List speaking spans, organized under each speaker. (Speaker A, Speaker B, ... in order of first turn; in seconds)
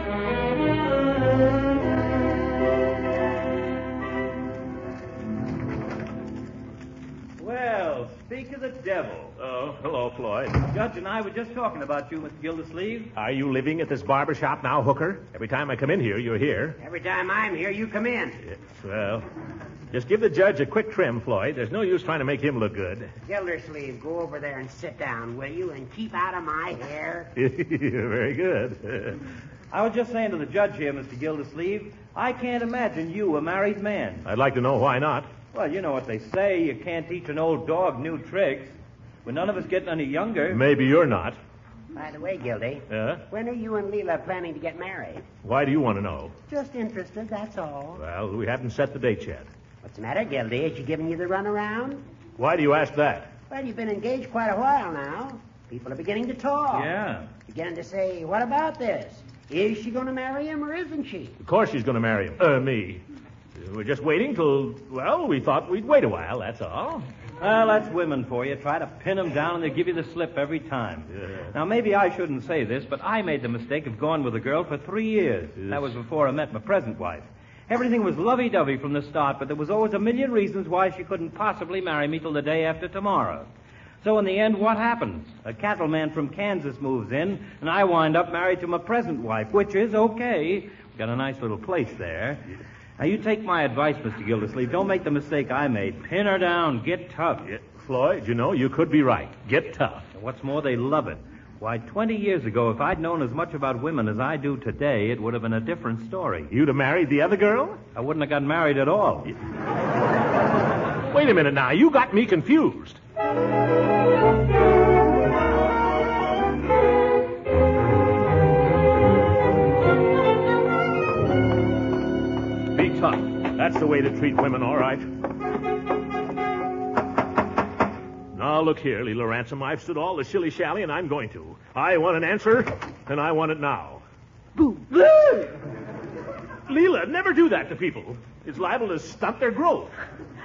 Speaker A: 7.4-9.3, 10.7-13.1, 29.7-34.2, 35.5-40.6, 56.7-57.3, 67.4-83.5, 84.0-92.4, 93.0-97.5, 100.1-106.5, 108.0-109.3
Speaker B: 9.4-10.6, 13.2-16.8, 18.4-19.2, 19.9-23.1, 27.4-29.2, 34.2-35.3, 40.5-41.4, 42.9-43.2, 45.4-46.3, 48.0-49.5, 52.4-53.3, 61.4-63.0, 63.6-67.1, 71.2-71.5, 75.6-76.0, 97.5-100.1, 106.5-107.8, 111.1-113.0, 122.7-125.0, 128.3-134.0, 134.6-135.6, 136.7-139.9
Speaker C: 16.8-18.4, 23.3-27.3, 41.9-45.2, 46.5-48.0, 49.8-52.0, 53.5-57.0, 57.5-61.4